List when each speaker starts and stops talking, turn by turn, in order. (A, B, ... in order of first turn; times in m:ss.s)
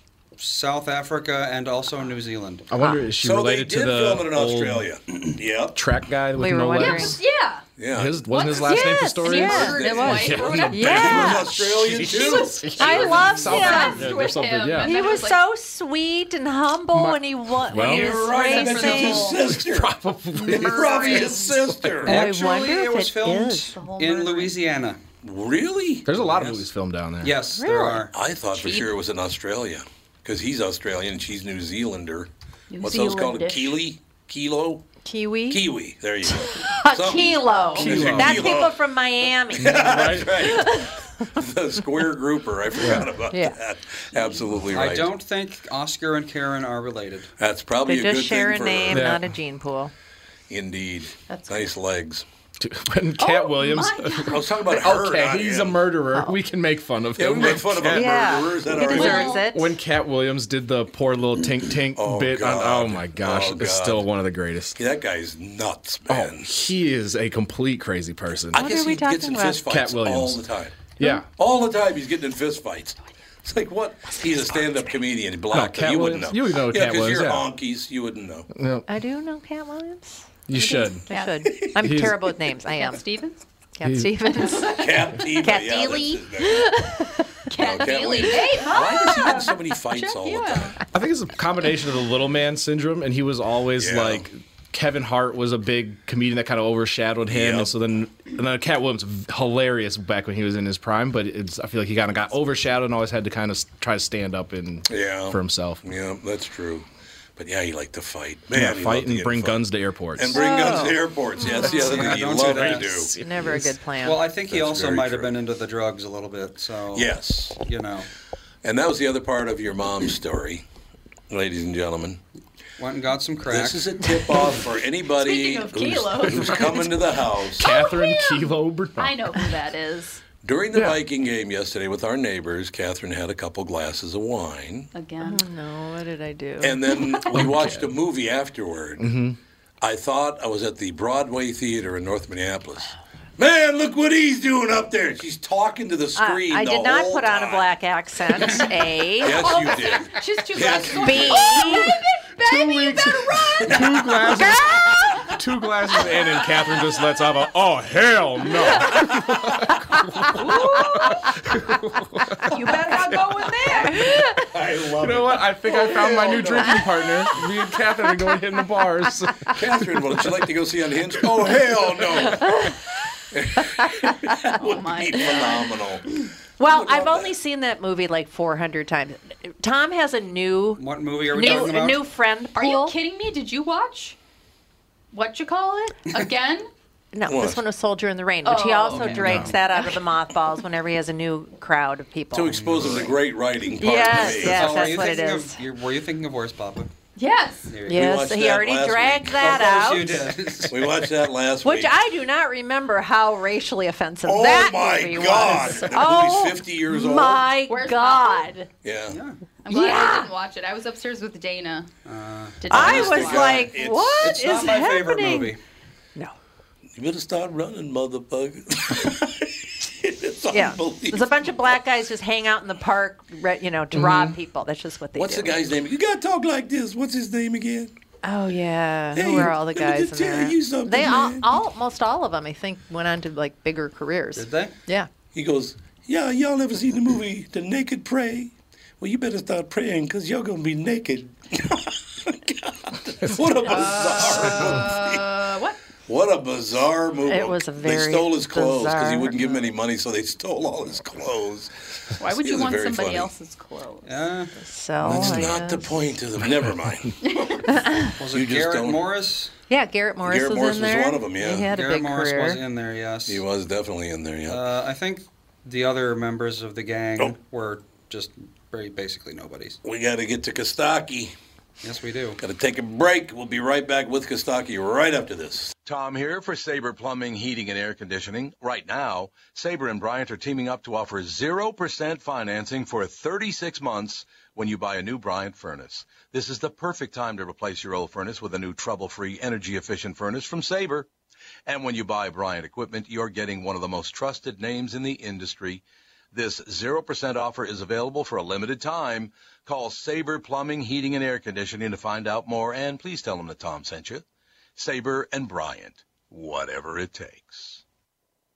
0:00.4-0:02.6 A
0:02.7-0:04.9 B
0:02.8-0:03.0 C
0:03.2-0:05.8 D
0:05.8-0:07.2 B
0:06.4-0:07.2 C
0:06.8-0:07.6 E
0:07.8-0:08.5 D
0:07.9-0:15.1 B
0:08.3-0:15.5 E
0:08.8-0:10.0 C
0:09.5-0:12.6 D
0:10.7-0:11.6 C
0:12.8-0:14.1 C
0:14.8-0:19.3 C
0:17.6-0:18.1 B
0:17.8-0:22.2 D
0:18.1-0:19.4 E
0:19.5-0:21.0 B
0:20.5-0:21.5 E
0:20.9-0:21.3 C
0:21.7-0:22.0 B
0:22.0-0:23.7 C
0:22.1-0:25.0 A
0:23.7-0:24.6 E
0:25.2-0:26.5 D
0:26.1-0:27.4 B
0:26.2-0:26.6 A
0:27.2-0:28.1 A
0:27.6-0:28.1 C
0:28.1-0:34.9 D
0:28.5-0:28.9 E
0:32.7-0:33.8 E
0:35.0-0:35.6 C
0:35.5-0:38.8 D
0:36.3-0:40.9 C
0:37.8-0:38.4 B
0:39.5-0:45.1 D
0:39.6-0:40.5 B
0:42.8-0:43.1 B
0:43.3-0:43.6 C
0:44.7-0:47.3 A
0:47.4-0:49.1 D
0:47.9-0:49.9 C
0:48.9-0:49.3 B
0:50.5-0:52.2 D
0:51.3-0:51.7 E
0:52.6-0:58.3 B
0:53.2-0:54.5 E
0:54.3-0:55.9 D
0:57.2-0:59.4 D
0:57.9-0:59.7 C
0:58.6-0:59.5 E
0:59.5-1:04.8 B
1:02.0-1:04.1 D
1:04.8-1:06.6 D
1:06.1-1:08.7 B
1:08.5-1:10.8 D
1:08.5-1:09.6 C
1:09.7-1:10.5 B
1:11.0-1:11.3 B
1:11.4-1:18.5 D
1:15.5-1:17.5 B
1:18.5-1:18.9 B
1:18.9-1:20.4 C
1:20.5-1:21.1 B
1:20.5-1:21.7 E
1:21.1-1:23.1 C
1:21.4-1:21.8 D
1:21.8-1:22.3 B
1:22.6-1:23.4 E
1:23.8-1:27.2 C
1:23.8-1:24.1 B
1:24.3-1:24.6 E
1:24.8-1:26.7 D
1:27.5-1:30.8 E
1:27.6-1:30.8 D
1:30.9-1:45.8 B
1:33.8-1:34.3 D
1:37.3-1:37.7 D
1:44.9-1:53.1 D
1:48.5-1:50.7 B
1:50.3-1:52.1 C
1:51.6-1:52.9 A
1:52.0-1:53.7 B
1:53.2-1:54.2 C
1:54.0-1:58.1 A
1:54.5-1:55.3 D
1:56.9-1:57.6 D
1:58.6-2:00.6 D
2:01.3-2:02.2 D
2:02.8-2:03.9 A
2:03.5-2:07.6 D
2:05.1-2:07.1 E
2:07.6-2:10.2 E
2:07.6-2:09.3 B
2:10.4-2:14.9 D
2:10.8-2:11.0 B
2:14.9-2:15.5 E
2:15.2-2:16.9 C
2:16.6-2:19.2 D
2:17.1-2:17.4 E
2:17.3-2:17.9 B
2:19.0-2:19.4 B
2:19.8-2:27.8 D
2:26.2-2:29.5 C
2:29.2-2:31.6 D
2:29.3-2:34.1 E
2:30.9-2:31.9 C
2:32.4-2:34.7 B
2:33.6-2:33.9 D
2:34.3-2:35.3 C
2:35.3-2:43.3 B
2:40.4-2:41.2 C
2:40.6-2:41.0 E
2:42.4-2:44.4 C
2:43.0-2:43.9 E
2:44.5-2:46.8 D
2:45.0-2:49.5 B
2:49.5-2:52.5 D
2:53.3-2:56.1 D
2:54.6-2:55.8 E
2:56.6-3:03.0 C
2:56.6-2:57.3 D
3:00.8-3:02.0 A
3:01.4-3:01.7 E
3:02.6-3:04.2 E
3:05.1-3:06.7 E
3:07.1-3:13.1 C
3:07.2-3:07.6 D
3:08.4-3:10.0 E
3:09.1-3:09.5 B
3:12.3-3:14.9 D
3:12.5-3:13.1 A
3:13.8-3:15.6 C
3:14.3-3:16.9 A
3:17.2-3:17.8 E
3:17.7-3:18.1 A
3:17.9-3:20.3 C
3:17.9-3:19.7 D
3:19.4-3:21.1 A
3:20.7-3:21.9 D
3:21.6-3:28.7 C
3:24.2-3:27.5 D
3:27.6-3:28.6 E
3:28.8-3:29.2 D
3:29.1-3:29.4 A
3:29.6-3:31.9 E
3:29.7-3:30.3 C
3:32.1-3:32.9 A
3:32.6-3:33.7 E
3:32.7-3:34.4 D
3:32.7-3:35.6 C
3:34.2-3:35.6 A
3:37.0-3:41.7 D
3:40.5-3:45.7 C
3:44.0-3:44.3 B
3:45.1-3:47.9 D
3:48.2-3:55.1 C
3:49.1-3:51.5 D
3:54.4-3:54.8 A
3:55.3-4:05.3 D
4:03.6-4:05.8 E
4:06.1-4:13.3 D
4:07.3-4:09.7 C
4:12.2-4:14.3 E
4:14.0-4:14.5 A
4:14.6-4:16.0 C
4:15.0-4:17.2 D
4:15.2-4:15.4 B
4:17.2-4:17.6 E
4:17.7-4:18.1 C
4:18.2-4:19.5 A
4:18.3-4:19.0 D
4:19.7-4:22.6 C
4:20.2-4:21.7 D
4:21.7-4:23.4 A
4:23.3-4:24.6 D
4:24.5-4:29.8 A
4:29.8-4:31.3 D
4:31.8-4:32.4 A
4:32.4-4:35.7 D
4:35.8-4:51.1 F
4:51.6-5:04.2 F
5:04.8-5:07.8 F